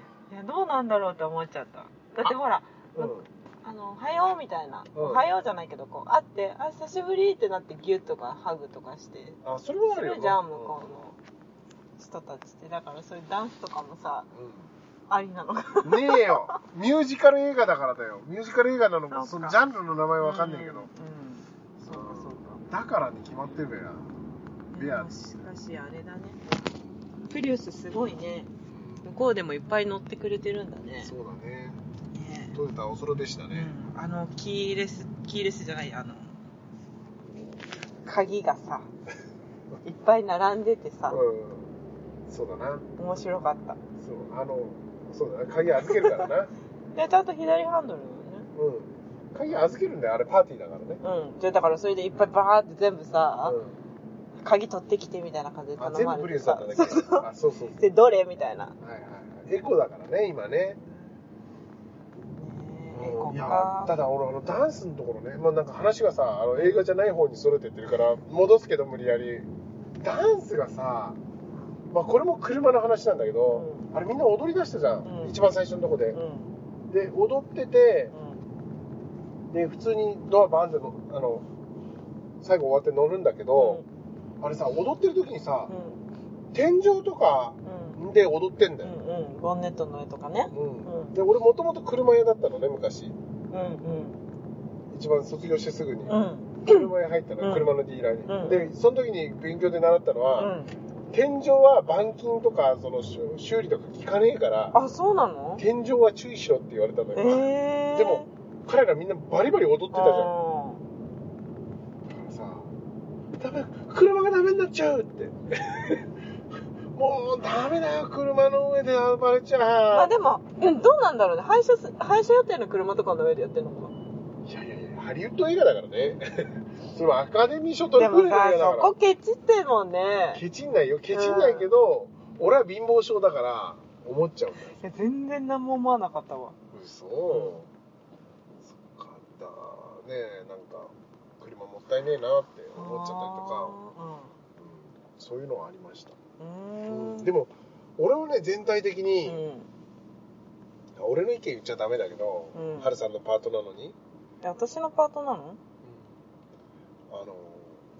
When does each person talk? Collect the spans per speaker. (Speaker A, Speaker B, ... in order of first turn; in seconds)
Speaker A: 0.3-11.2, 12.0-14.3, 15.1-16.4, 19.1-19.6, 20.2-22.6, 24.7-26.4, 27.3-28.5, 29.0-31.1, 32.1-32.6, 33.5-36.4, 38.0-38.9, 39.8-41.2, 43.0-43.8, 45.9-46.2, 46.9-48.5, 51.0-53.6, 54.4-57.2, 57.8-58.7, 60.8-61.2, 62.3-64.0, 66.5-66.8, 73.5-73.9, 75.0-75.3, 76.1-76.5, 78.1-78.4, 83.5-83.8, 85.7-86.0, 87.6-88.0, 88.8-91.1, 93.5-94.2, 96.1-96.9, 97.4-97.7, 98.2-98.7, 100.4-100.7, 104.7-105.6, 107.1-108.3, 109.9-110.8, 119.9-123.9, 128.0-130.4, 131.1-131.7, 134.7-136.6, 137.3-137.6, 142.7-144.4, 146.4-147.3, 149.2-149.7, 152.5-152.9, 154.4-155.6
Speaker B: 3.0-3.3, 4.9-5.3, 9.4-11.1, 14.3-14.7, 15.8-20.9, 21.8-24.1, 24.8-25.1, 28.7-29.1, 31.0-31.8, 32.5-33.7, 41.1-41.7, 42.3-42.9, 44.0-46.5, 48.5-51.0, 53.4-53.8, 55.8-57.8, 58.8-60.8, 62.9-69.5, 70.0-71.2, 71.9-76.2, 76.9-78.1, 79.5-81.5, 82.4-83.8, 84.4-85.7, 86.5-88.9, 90.5-93.2, 94.9-100.5, 101.1-104.8, 105.6-110.3, 112.1-112.7, 113.4-116.1, 116.9-120.1, 124.5-128.9, 130.3-134.8, 136.7-137.7, 138.7-143.8, 144.6-146.2, 146.9-149.4, 151.0-153.9, 157.1-157.8